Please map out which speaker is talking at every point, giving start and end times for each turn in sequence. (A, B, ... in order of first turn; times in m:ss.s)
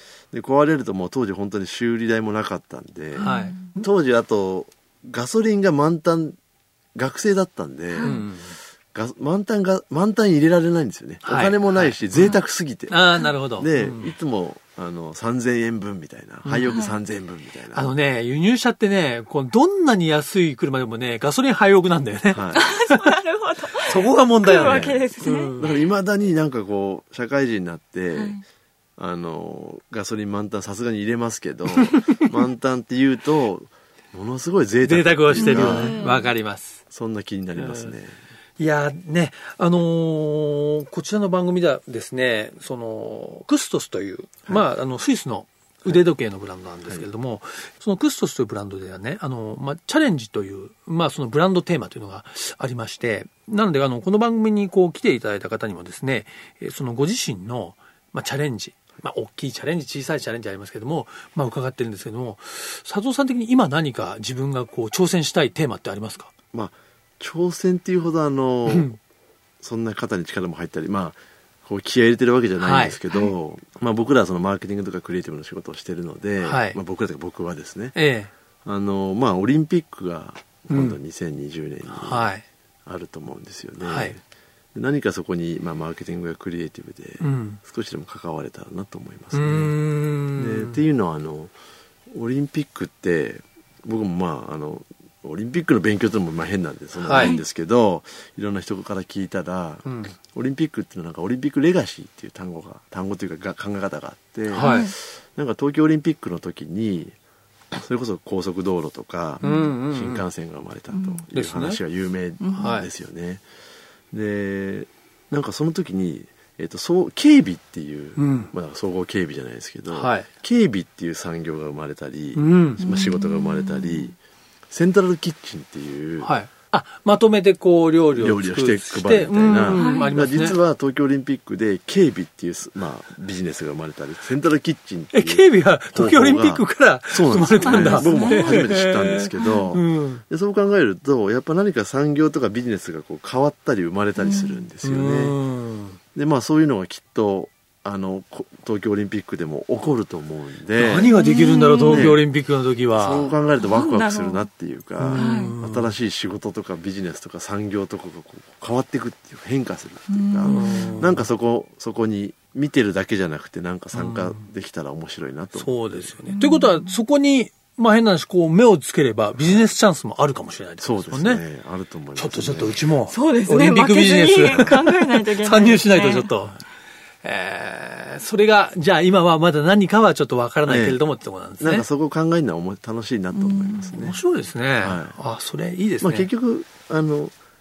0:00.3-0:06.4 A
0:03.2-0:03.7 B
0:03.2-0:03.8 C
0:07.0-0:08.2 A
0:08.0-0:08.2 B
0:08.0-0:08.5 C
0:08.9-0:17.9 A
0:11.2-0:12.4 C
0:12.9-0:14.1 C
0:16.4-0:16.9 C
0:17.7-0:23.2 C
0:22.3-0:22.7 A
0:22.5-0:25.5 B
0:23.8-0:25.8 C
0:24.5-0:28.4 A
0:28.2-0:28.4 B
0:29.0-0:36.0 A
0:31.8-0:32.3 C
0:34.8-0:36.8 C
0:35.4-0:36.3 B
0:36.9-0:38.2 A
0:37.6-0:37.9 C
0:38.6-1:06.3 C
1:06.5-1:09.0 A
1:08.7-1:09.0 C
1:09.6-1:18.0 A
1:12.6-1:13.0 C
1:16.4-1:16.8 C
1:18.0-1:18.3 C
1:18.6-1:22.3 A
1:20.7-1:21.0 C
1:21.9-1:22.4 C
1:22.9-1:24.2 A
1:23.8-1:24.1 C
1:24.8-1:29.8 A
1:27.2-1:27.6 C
1:29.3-1:30.8 C
1:30.4-1:31.5 A
1:32.1-1:47.1 A
1:37.0-1:37.4 C
1:37.1-1:37.4 B
1:39.9-1:40.1 C
1:44.5-1:44.9 C
1:44.6-1:44.9 B
1:47.7-1:53.4 A
1:49.4-1:49.7 B
1:49.4-1:50.2 C
1:50.9-1:51.2 B
1:51.3-1:51.8 C
1:52.4-1:52.8 B
1:52.6-1:52.9 C
1:54.1-2:04.2 A
1:58.2-1:58.5 C
1:59.9-2:00.3 C
2:02.4-2:02.8 C
2:02.8-2:04.1 B
2:04.7-2:06.3 A
2:06.2-2:10.6 C
2:08.2-2:25.4 A
2:09.7-2:10.1 B
2:15.1-2:20.2 C
2:17.6-2:18.6 B
2:24.2-2:24.6 B
2:24.8-2:26.0 C
2:26.1-2:31.1 A
2:30.8-2:33.3 C
2:31.0-2:32.1 B
2:31.8-2:32.2 A
2:33.0-2:46.1 A
2:33.6-2:34.4 B
2:35.0-2:35.9 C
2:35.2-2:35.6 B
2:40.1-2:41.0 B
2:40.4-2:41.3 C
2:43.9-2:44.4 C
2:45.6-2:51.4 C
2:46.3-2:46.9 B
2:49.4-2:49.7 A
2:50.8-2:52.9 A
2:52.2-2:56.6 C
2:53.1-2:56.3 B
2:54.5-2:54.8 A
2:57.2-3:01.9 C
3:00.7-3:01.0 A
3:01.6-3:04.2 A
3:03.3-3:04.1 B
3:03.9-3:06.3 C
3:04.8-3:05.2 A
3:06.0-3:07.3 A